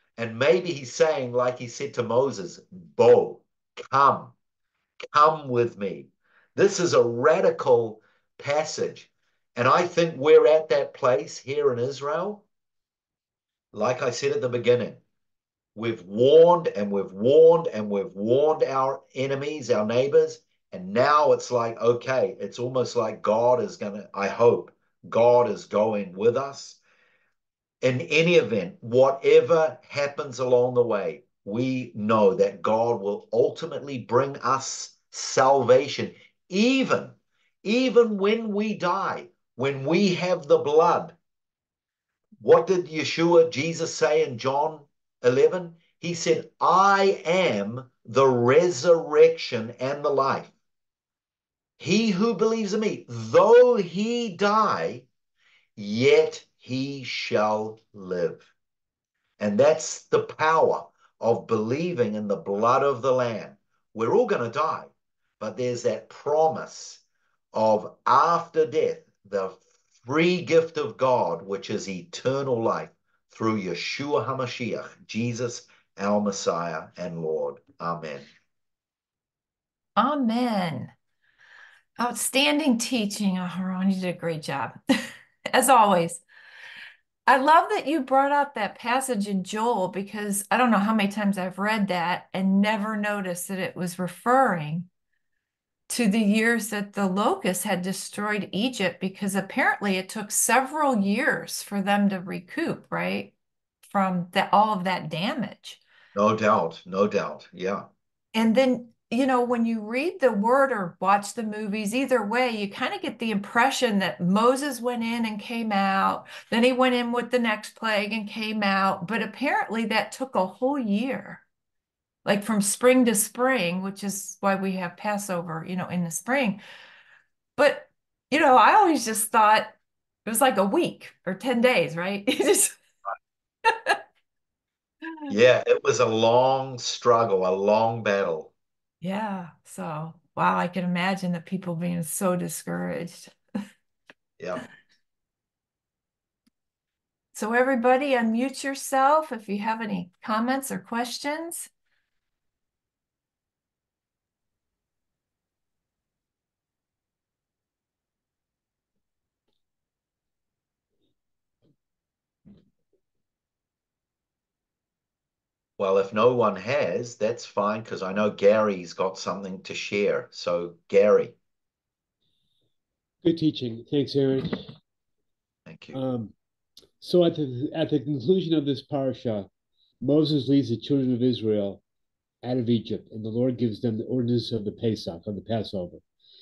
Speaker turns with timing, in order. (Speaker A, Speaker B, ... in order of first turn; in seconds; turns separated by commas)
Speaker A: 0.2-4.3, Speaker A: 5.1-12.4, Speaker A: 13.7-15.0, Speaker A: 15.8-26.8, Speaker A: 27.8-41.2, Speaker A: 42.4-50.5, Speaker A: 51.8-55.1, Speaker A: 55.8-58.5, Speaker A: 59.4-67.0, Speaker A: 67.5-78.3, Speaker B: 80.0-80.9, Speaker B: 82.0-86.2, Speaker B: 87.3-94.9, Speaker B: 95.9-103.3, Speaker B: 103.8-105.8, Speaker A: 106.2-107.9, Speaker B: 108.3-121.4, Speaker B: 122.2-126.6, Speaker B: 127.6-132.8, Speaker B: 133.7-134.0, Speaker A: 135.3-138.5, Speaker B: 139.0-143.3, Speaker A: 144.4-144.7, Speaker B: 147.3-151.7, Speaker A: 165.8-171.3, Speaker C: 173.2-174.6, Speaker A: 175.7-176.0, Speaker C: 175.9-176.3, Speaker C: 177.0-179.5, Speaker C: 180.0-181.8, Speaker C: 182.4-186.0